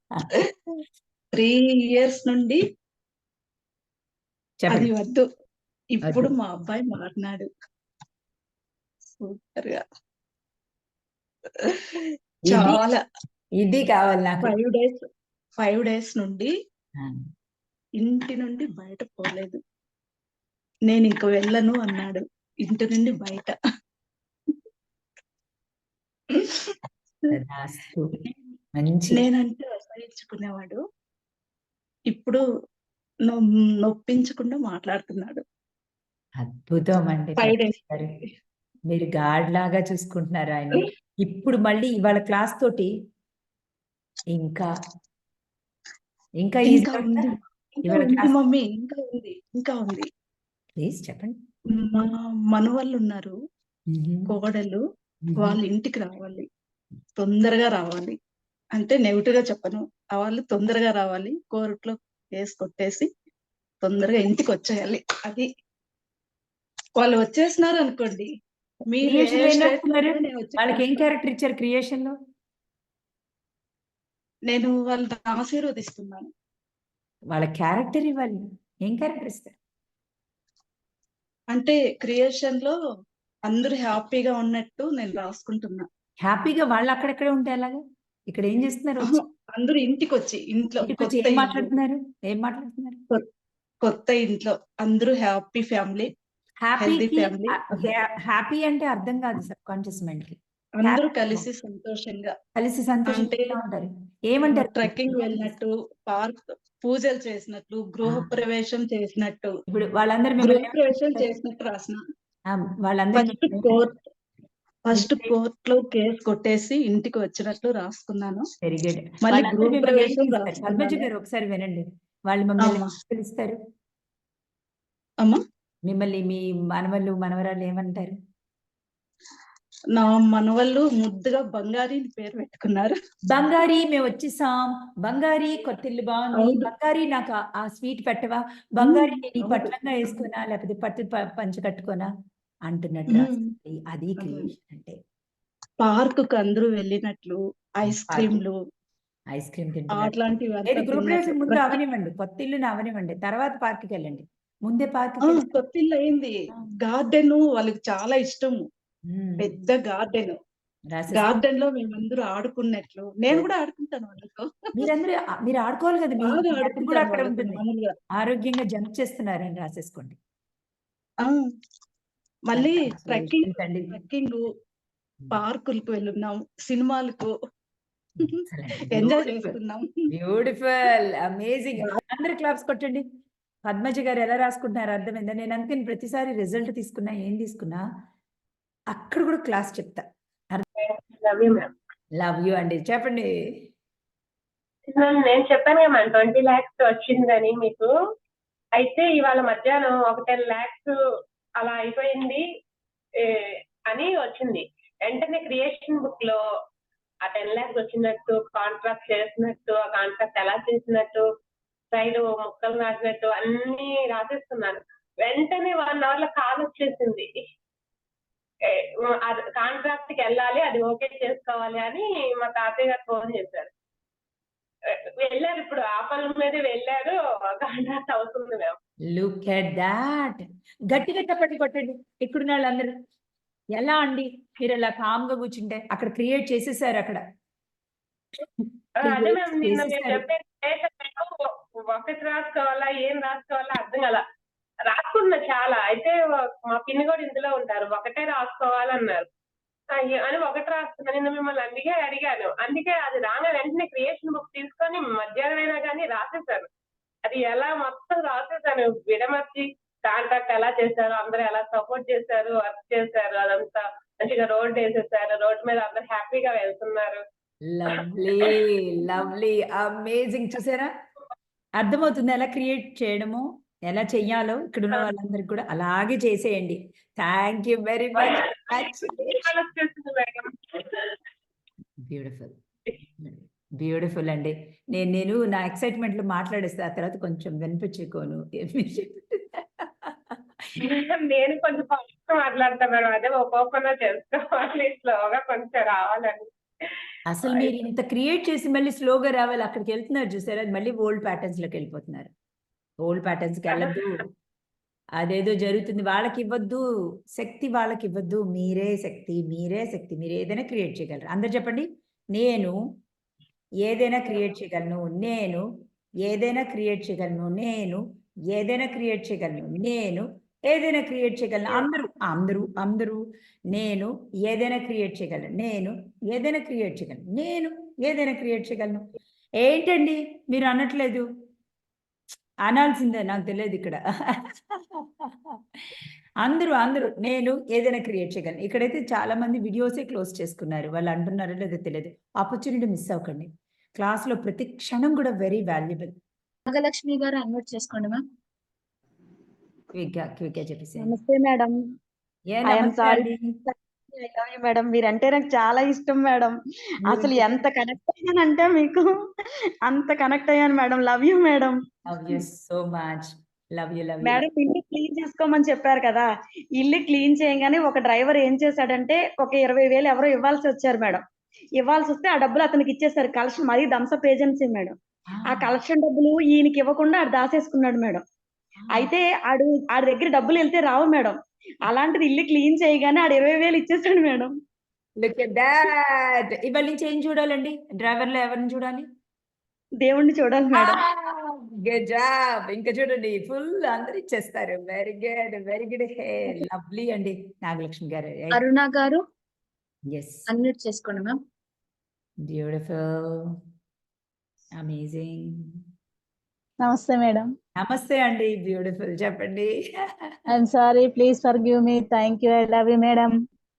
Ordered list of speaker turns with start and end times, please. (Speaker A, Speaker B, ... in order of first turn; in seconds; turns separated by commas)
Speaker A: 1.3-2.6, Speaker B: 4.6-4.9, Speaker A: 4.7-5.2, Speaker A: 5.9-7.5, Speaker B: 6.0-6.3, Speaker A: 9.2-9.8, Speaker A: 12.1-13.0, Speaker B: 12.5-12.8, Speaker B: 13.6-14.5, Speaker A: 14.4-15.0, Speaker A: 15.6-16.5, Speaker A: 18.0-19.6, Speaker A: 20.9-23.5, Speaker A: 26.3-27.4, Speaker B: 27.3-28.1, Speaker B: 28.7-29.2, Speaker A: 29.1-30.8, Speaker A: 32.1-32.4, Speaker A: 33.3-35.4, Speaker B: 36.4-38.1, Speaker A: 37.4-37.8, Speaker B: 38.9-42.9, Speaker B: 44.3-44.7, Speaker B: 46.4-47.2, Speaker A: 46.6-50.0, Speaker B: 47.8-48.3, Speaker B: 50.8-51.4, Speaker A: 51.7-53.3, Speaker B: 53.9-54.3, Speaker A: 54.3-54.8, Speaker B: 55.2-55.6, Speaker A: 55.4-56.5, Speaker A: 57.2-58.1, Speaker A: 58.7-63.1, Speaker A: 63.8-65.5, Speaker A: 67.0-68.3, Speaker A: 68.9-71.1, Speaker B: 69.0-72.1, Speaker A: 74.5-76.3, Speaker B: 77.3-79.5, Speaker A: 81.5-82.7, Speaker A: 83.5-85.8, Speaker B: 86.2-89.2, Speaker A: 89.0-91.7, Speaker B: 90.8-93.0, Speaker A: 93.8-96.1, Speaker B: 96.6-101.5, Speaker A: 96.8-97.8, Speaker A: 100.8-102.3, Speaker B: 102.6-105.5, Speaker A: 103.0-103.6, Speaker A: 104.5-109.5, Speaker B: 108.0-108.3, Speaker B: 109.7-111.3, Speaker A: 110.4-112.0, Speaker B: 112.5-113.7, Speaker A: 113.1-114.0, Speaker A: 114.8-118.4, Speaker B: 114.9-115.3, Speaker B: 118.6-123.5, Speaker A: 119.2-121.0, Speaker A: 122.6-122.9, Speaker B: 125.8-128.1, Speaker A: 129.9-132.9, Speaker B: 133.3-142.1, Speaker A: 136.3-136.7, Speaker A: 138.8-139.7, Speaker B: 142.7-144.9, Speaker A: 143.1-143.5, Speaker A: 144.2-144.5, Speaker A: 145.8-148.6, Speaker B: 147.8-148.4, Speaker B: 149.3-150.1, Speaker A: 149.9-151.8, Speaker B: 150.7-155.5, Speaker A: 155.2-156.3, Speaker A: 156.8-158.6, Speaker B: 159.1-159.5, Speaker A: 159.4-160.4, Speaker B: 160.9-161.3, Speaker A: 161.1-164.5, Speaker B: 164.8-167.6, Speaker A: 166.2-167.9, Speaker B: 168.2-170.2, Speaker A: 172.4-174.5, Speaker B: 172.5-173.9, Speaker A: 175.3-177.3, Speaker A: 178.2-179.9, Speaker B: 178.5-179.6, Speaker B: 180.1-183.0, Speaker B: 183.7-187.8, Speaker B: 188.9-190.7, Speaker C: 190.8-191.7, Speaker B: 192.2-193.3, Speaker C: 194.9-197.9, Speaker C: 198.8-200.9, Speaker C: 201.6-202.4, Speaker C: 203.2-206.4, Speaker C: 207.2-211.2, Speaker C: 211.9-217.3, Speaker C: 218.7-223.7, Speaker C: 225.2-228.7, Speaker B: 229.1-232.9, Speaker B: 233.8-237.2, Speaker C: 239.0-241.3, Speaker B: 239.0-240.2, Speaker C: 241.9-244.2, Speaker C: 244.9-249.3, Speaker C: 249.9-256.7, Speaker C: 257.2-267.2, Speaker B: 267.7-270.9, Speaker B: 271.8-279.4, Speaker C: 278.2-281.2, Speaker B: 282.0-290.4, Speaker C: 290.8-296.9, Speaker B: 297.3-302.3, Speaker C: 297.5-297.7, Speaker B: 303.0-304.2, Speaker B: 305.2-306.8, Speaker B: 307.3-312.7, Speaker B: 313.8-315.6, Speaker B: 316.2-318.0, Speaker B: 318.5-323.2, Speaker B: 323.7-329.1, Speaker B: 329.6-331.2, Speaker B: 332.7-334.0, Speaker B: 336.4-346.1, Speaker D: 346.7-348.2, Speaker B: 349.9-351.1, Speaker E: 351.0-351.8, Speaker B: 352.5-353.4, Speaker E: 352.6-361.8, Speaker B: 357.1-357.4, Speaker B: 362.1-364.4, Speaker E: 364.2-371.2, Speaker E: 371.8-378.2, Speaker B: 375.3-375.8, Speaker B: 378.8-379.1, Speaker E: 378.9-384.6, Speaker B: 385.2-389.0, Speaker E: 390.0-391.0, Speaker B: 390.7-398.7, Speaker D: 398.5-399.2, Speaker B: 400.1-400.5, Speaker D: 400.5-401.4, Speaker B: 402.4-403.5, Speaker B: 404.8-405.5, Speaker F: 406.8-407.5, Speaker B: 407.8-409.7, Speaker F: 410.5-413.3